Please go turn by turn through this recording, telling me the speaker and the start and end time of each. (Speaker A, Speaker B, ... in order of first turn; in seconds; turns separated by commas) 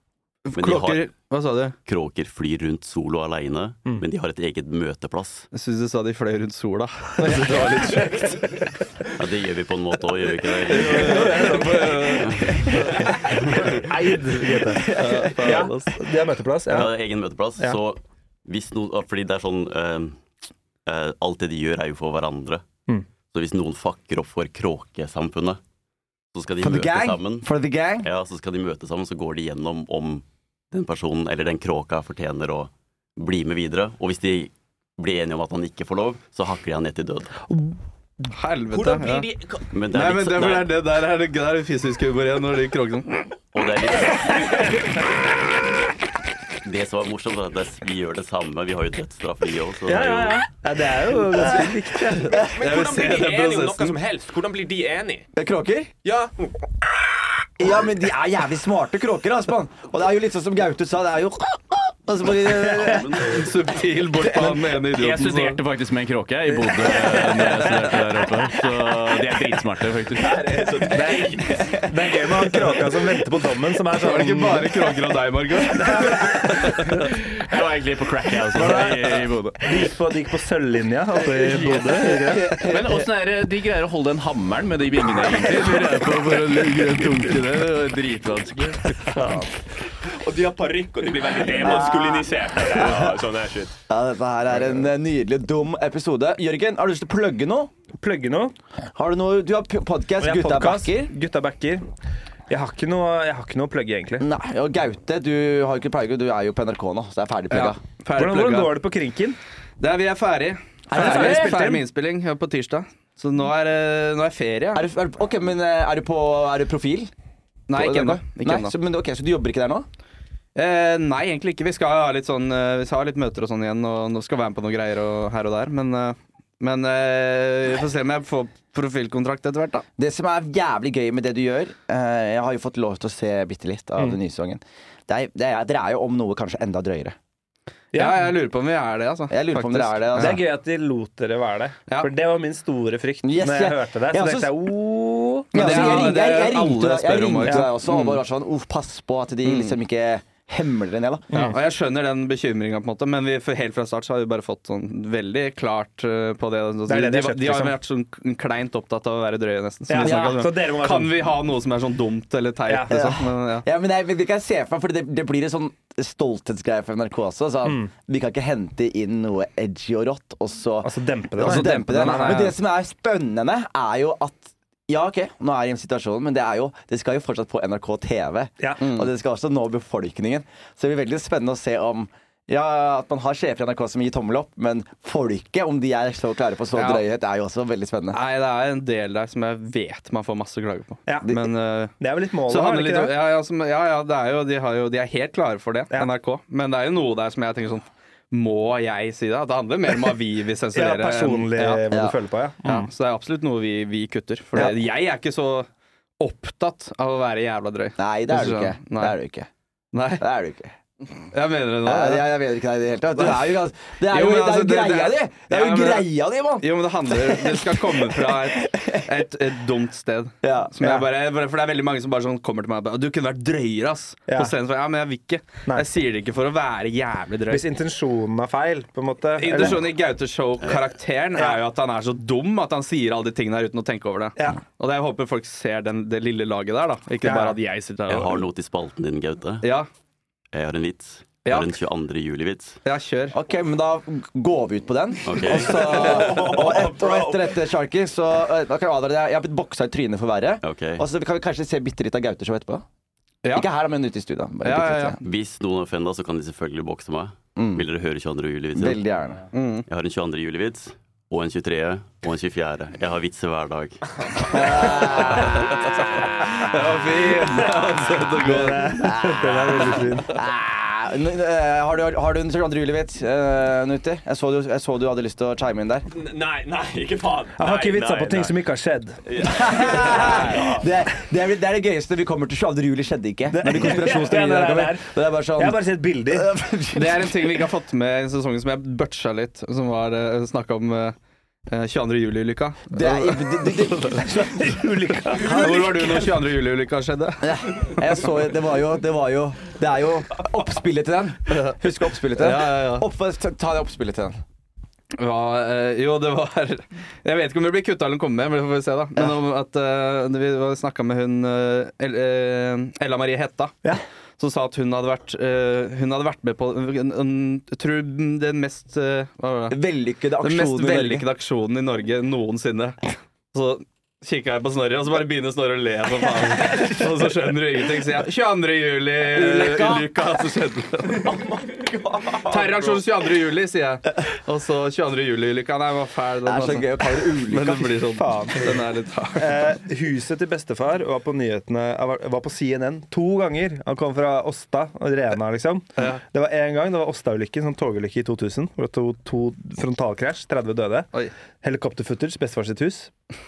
Speaker A: 0.5-1.7, Speaker B: 0.5-1.1, Speaker B: 1.9-5.4, Speaker A: 5.5-8.6, Speaker B: 9.2-11.6, Speaker C: 10.7-17.0, Speaker A: 10.7-12.3, Speaker B: 12.2-12.6, Speaker D: 14.8-15.7, Speaker A: 14.9-16.0, Speaker B: 16.7-20.2, Speaker B: 20.9-22.6, Speaker B: 23.3-25.6, Speaker B: 26.3-27.5, Speaker D: 26.6-28.1, Speaker B: 28.0-37.3, Speaker C: 37.5-37.8, Speaker A: 38.3-39.3, Speaker E: 38.7-39.6, Speaker B: 39.7-40.7, Speaker A: 39.9-43.1, Speaker B: 43.5-45.1, Speaker B: 46.6-50.5, Speaker C: 49.9-52.4, Speaker E: 52.3-55.3, Speaker A: 52.6-54.0, Speaker D: 55.3-55.9, Speaker E: 56.0-56.3, Speaker D: 57.6-63.2, Speaker B: 62.7-63.5, Speaker A: 63.2-65.6, Speaker F: 65.0-70.6, Speaker E: 70.2-71.7, Speaker C: 70.9-74.7, Speaker A: 74.0-76.9, Speaker C: 75.8-76.8, Speaker F: 76.9-79.8, Speaker C: 78.5-82.7, Speaker D: 82.3-82.9, Speaker F: 82.6-89.1, Speaker C: 89.1-89.5, Speaker E: 90.1-93.8, Speaker D: 91.6-93.1, Speaker C: 91.6-91.9, Speaker D: 93.9-97.7, Speaker C: 98.0-98.5, Speaker D: 98.9-101.1, Speaker C: 100.2-101.9, Speaker C: 102.5-104.2, Speaker D: 104.2-107.8, Speaker A: 107.5-108.8, Speaker C: 108.2-109.4, Speaker A: 109.8-114.8, Speaker D: 110.9-111.6, Speaker C: 110.9-111.8, Speaker D: 114.7-117.1, Speaker A: 117.7-118.7, Speaker D: 117.7-119.9, Speaker A: 120.5-129.8, Speaker D: 130.0-137.2, Speaker C: 137.9-138.3, Speaker A: 137.9-140.4, Speaker D: 139.3-140.4, Speaker C: 140.2-146.1, Speaker D: 143.2-144.7, Speaker D: 145.5-151.3, Speaker A: 145.5-148.2, Speaker C: 147.4-147.7, Speaker A: 149.4-149.8, Speaker C: 151.3-151.6, Speaker A: 151.3-163.7, Speaker C: 156.9-157.8, Speaker C: 159.9-161.2, Speaker D: 160.0-160.4, Speaker C: 162.7-163.1, Speaker D: 162.9-188.2, Speaker C: 170.8-172.5, Speaker A: 171.4-172.5, Speaker C: 178.6-178.9, Speaker A: 186.7-187.0, Speaker A: 188.1-201.8, Speaker C: 191.1-191.3, Speaker C: 192.0-193.1, Speaker C: 200.7-202.9, Speaker D: 201.9-202.2, Speaker A: 202.6-205.7, Speaker A: 206.2-209.2, Speaker D: 208.0-209.5, Speaker A: 209.9-210.2, Speaker D: 210.2-210.7, Speaker A: 211.3-212.2, Speaker D: 211.8-219.0, Speaker A: 214.1-227.6, Speaker D: 220.4-220.7, Speaker C: 224.3-224.5, Speaker C: 227.5-229.9, Speaker A: 229.4-238.4, Speaker C: 231.4-231.6, Speaker C: 237.2-237.6, Speaker B: 238.1-239.6, Speaker A: 239.6-239.9, Speaker B: 240.5-242.8, Speaker A: 241.4-241.7, Speaker A: 242.8-243.3, Speaker D: 243.3-252.8, Speaker B: 245.2-245.8, Speaker E: 245.7-247.5, Speaker B: 250.6-251.0, Speaker D: 253.5-255.2, Speaker A: 254.6-255.2, Speaker B: 255.2-259.0, Speaker D: 257.6-257.8, Speaker D: 258.8-259.4, Speaker A: 259.5-259.8, Speaker B: 259.9-264.0, Speaker D: 264.5-265.6, Speaker B: 264.6-265.1, Speaker A: 266.5-269.1, Speaker C: 268.4-270.4, Speaker D: 269.0-276.1, Speaker E: 276.1-278.6, Speaker C: 277.6-279.2, Speaker E: 279.3-280.8, Speaker D: 279.4-287.6, Speaker C: 283.5-286.5, Speaker A: 286.9-291.1, Speaker A: 291.7-294.2, Speaker D: 292.9-296.2, Speaker C: 294.1-295.9, Speaker A: 295.4-297.5, Speaker D: 297.4-304.4, Speaker A: 301.5-303.1, Speaker A: 305.1-313.8, Speaker A: 314.4-319.8, Speaker D: 319.7-321.3, Speaker A: 320.4-331.3, Speaker D: 329.3-330.1, Speaker D: 331.1-332.9, Speaker A: 332.5-339.4, Speaker D: 336.4-338.0, Speaker C: 338.1-338.7, Speaker C: 339.4-353.1